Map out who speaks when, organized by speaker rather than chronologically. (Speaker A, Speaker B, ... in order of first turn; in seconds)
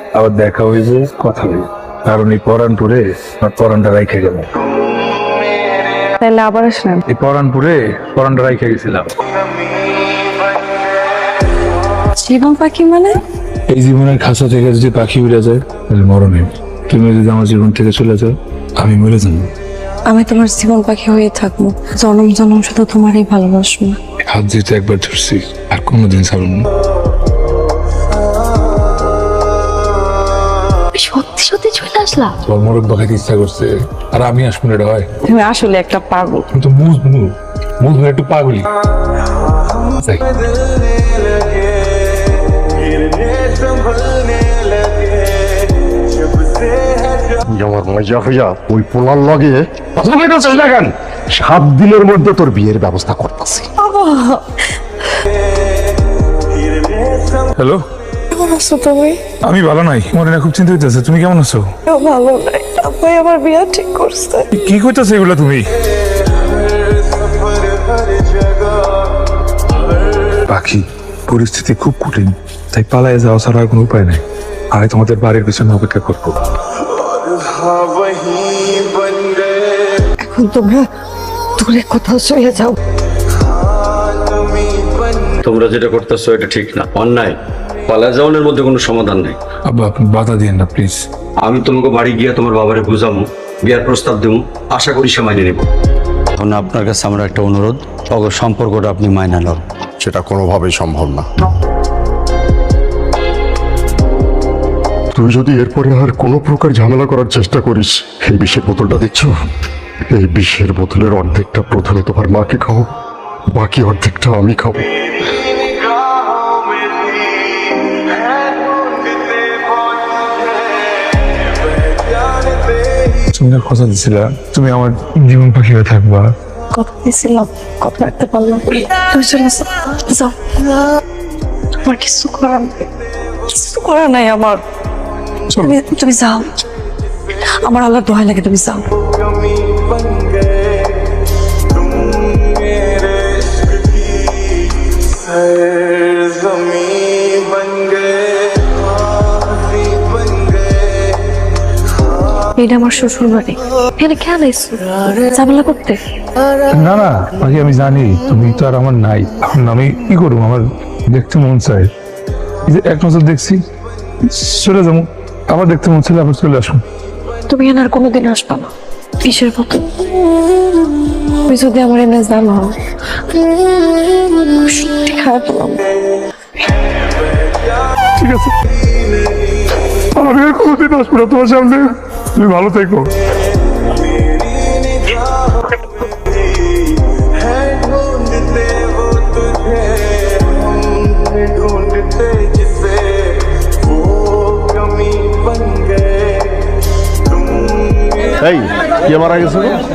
Speaker A: 0.1-4.5, 7.1-9.1, 13.7-19.5, 24.3-26.7, 32.4-35.1, 36.5-38.7, 40.0-40.4, 57.6-57.8, 59.4-61.7, 64.5-65.7, 70.5-76.4, 89.7-91.0, 123.3-126.3, 135.5-135.8, 156.7-161.9, 162.7-163.6, 164.2-166.8, 178.2-178.5, 180.2-183.1
Speaker B: 6.2-7.0, 12.2-13.2, 20.1-24.0, 30.9-32.4, 35.2-36.5, 53.8-54.4, 58.3-59.2, 61.9-64.5, 80.2-80.9, 81.6-82.7, 126.7-130.3, 131.8-132.8, 133.5-134.6, 135.6-136.5, 137.6-138.8, 152.6-156.0, 167.5-169.9, 171.5-172.8, 174.6-175.8
Speaker C: 47.5-53.6, 100.0-101.2, 105.1-109.3, 110.1-112.9, 113.5-114.9, 199.4-199.6
Speaker D: 85.4-87.4, 87.9-89.4, 91.5-95.7, 96.4-99.6